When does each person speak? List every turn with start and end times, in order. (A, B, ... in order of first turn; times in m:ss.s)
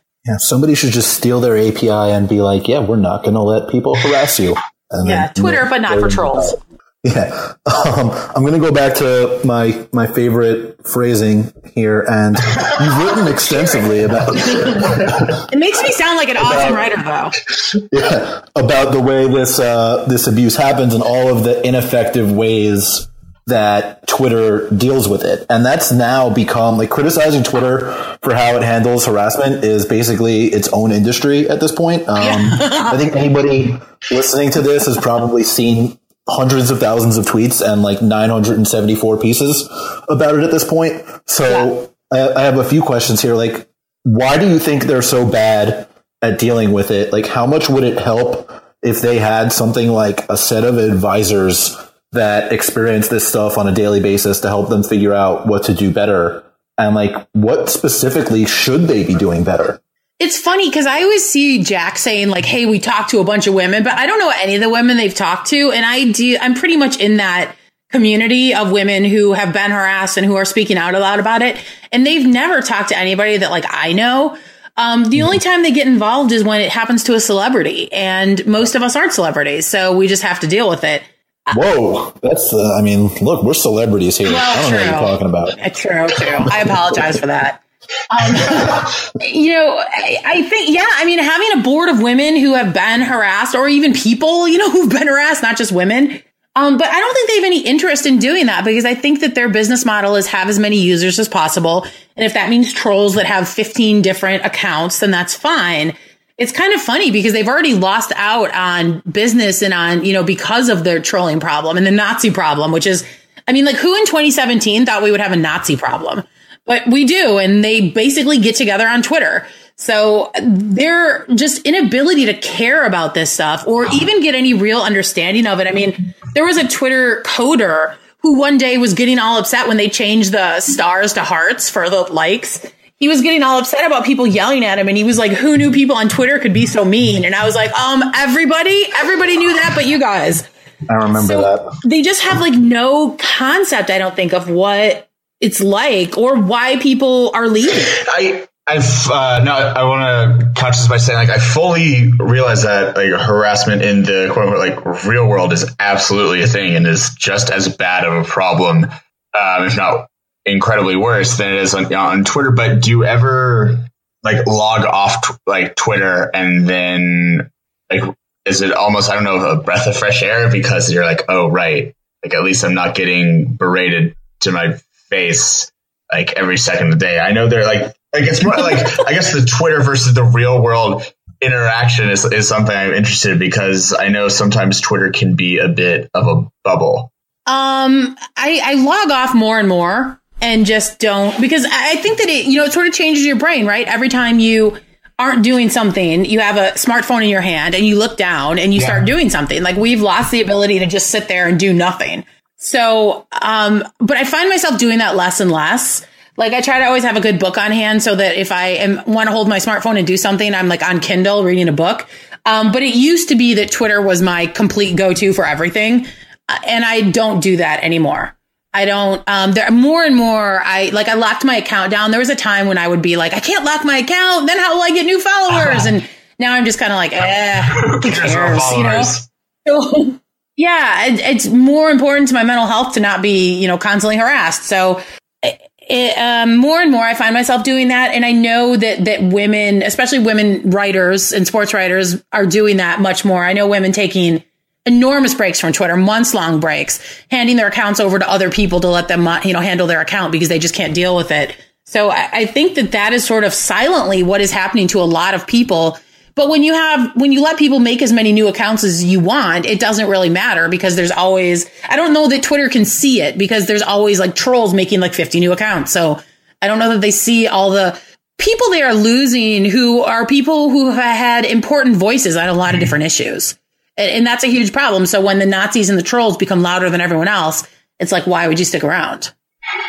0:00.2-0:15.4 A
0:05.0-0:06.6 B
0:14.4-0:17.4 B
0:17.9-0:59.8 A
0:32.2-0:32.9 B
1:00.2-1:21.6 B
1:21.5-1:25.6 A
1:24.2-2:20.4 B
2:20.9-2:21.7 A
2:21.1-2:27.9 B
2:27.9-3:07.1 C
3:07.5-3:49.1 B
3:18.7-3:19.1 C
3:45.5-3:45.9 C
3:47.6-3:49.3 C
3:49.6-4:39.3 B